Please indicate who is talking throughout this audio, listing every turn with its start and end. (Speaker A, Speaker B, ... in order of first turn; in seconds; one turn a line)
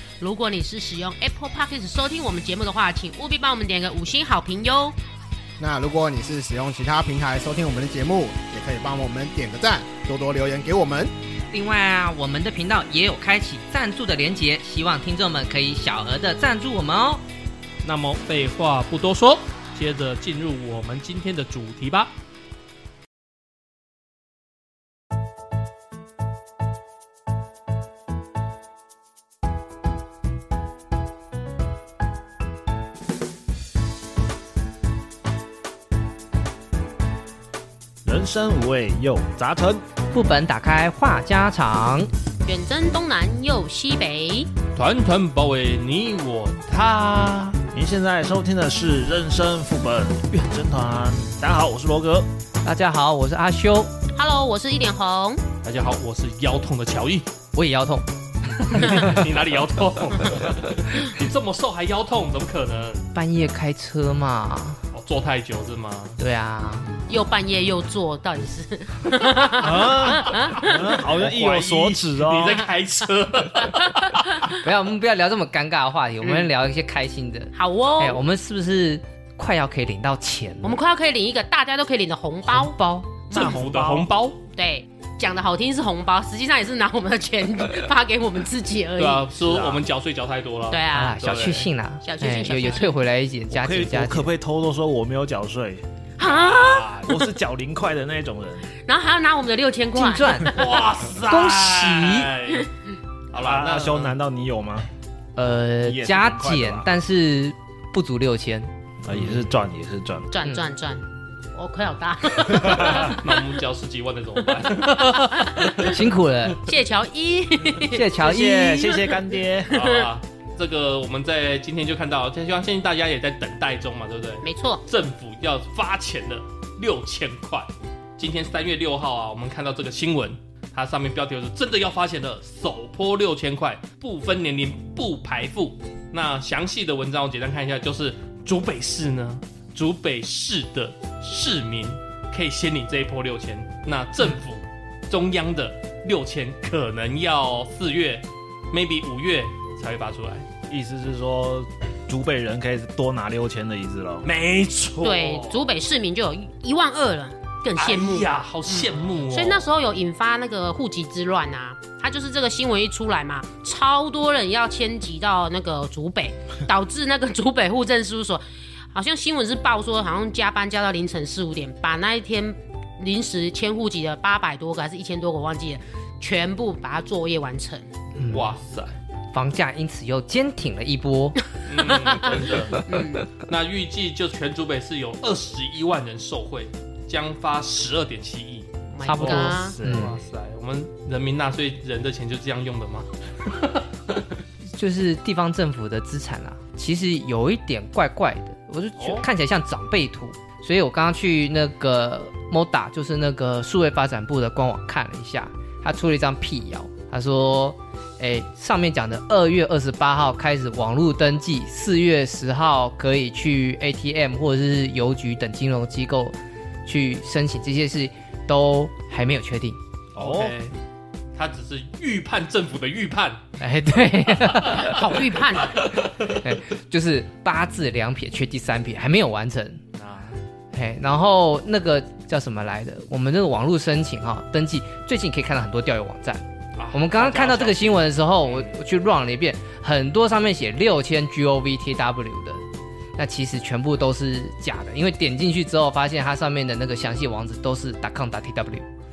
Speaker A: 0.2-5.0
Speaker B: 5.6-11.1
Speaker C: 11.5-17.2
Speaker D: 17.8-22.1
Speaker E: 38.0-39.8
Speaker C: 40.1-42.1
Speaker A: 42.5-44.5
Speaker D: 44.8-47.6
Speaker E: 47.7-52.3
Speaker C: 52.6-53.9
Speaker A: 54.1-55.4
Speaker D: 55.6-57.3
Speaker C: 57.5-58.1
Speaker C: 58.6-59.2
Speaker D: 58.6-63.0
Speaker A: 58.7-59.1
Speaker C: 63.1-64.8
Speaker D: 64.9-66.2
Speaker C: 66.2-66.9
Speaker A: 67.1-70.8
Speaker E: 69.6-72.7
Speaker D: 70.3-74.6
Speaker C: 74.6-80.8
Speaker A: 76.2-76.5
Speaker A: 77.5-78.2
Speaker A: 80.6-82.8
Speaker C: 82.5-83.2
Speaker A: 83.3-83.6
Speaker D: 83.3-84.4
Speaker E: 83.3-84.1
Speaker A: 84.5-89.3
Speaker D: 89.0-91.7
Speaker E: 89.3-89.8
Speaker A: 90.7-91.2
Speaker C: 90.9-94.3
Speaker A: 92.0-93.0
Speaker E: 93.5-95.8
Speaker A: 96.2-97.0
Speaker D: 96.2-97.2
Speaker E: 97.0-98.7
Speaker A: 98.9-100.8
Speaker C: 99.9-100.6
Speaker D: 100.5-102.7
Speaker C: 101.3-102.3
Speaker D: 103.3-104.2
Speaker E: 103.3-104.9
Speaker C: 105.4-108.7
Speaker E: 105.8-106.9
Speaker E: 109.0-110.3
Speaker D: 109.1-109.5
Speaker A: 110.3-113.4
Speaker D: 112.7-116.0
Speaker A: 115.0-115.9
Speaker C: 115.8-116.6
Speaker A: 116.6-118.2
Speaker C: 117.8-119.1
Speaker E: 118.2-119.7
Speaker A: 119.1-120.1
Speaker D: 119.7-150.5
Speaker A: 124.4-124.8
Speaker E: 150.7-154.3
Speaker D: 154.2-155.7
Speaker A: 155.0-177.9
Speaker D: 157.8-159.7
Speaker C: 178.2-178.5
Speaker D: 178.3-179.0
Speaker C: 179.3-181.4
Speaker D: 181.7-188.7
Speaker A: 181.8-183.3
Speaker A: 188.9-189.8
Speaker C: 189.0-190.2
Speaker E: 189.2-190.2
Speaker D: 189.8-194.3
Speaker C: 194.8-219.8
Speaker D: 199.0-199.3
Speaker D: 220.2-220.8
Speaker E: 220.2-220.6
Speaker D: 221.3-223.6
Speaker C: 223.6-225.1
Speaker D: 224.1-225.0
Speaker A: 224.7-225.9
Speaker D: 225.7-226.4
Speaker C: 226.2-229.8
Speaker D: 230.0-230.4
Speaker C: 230.7-242.6
Speaker D: 236.8-238.7
Speaker C: 243.2-248.9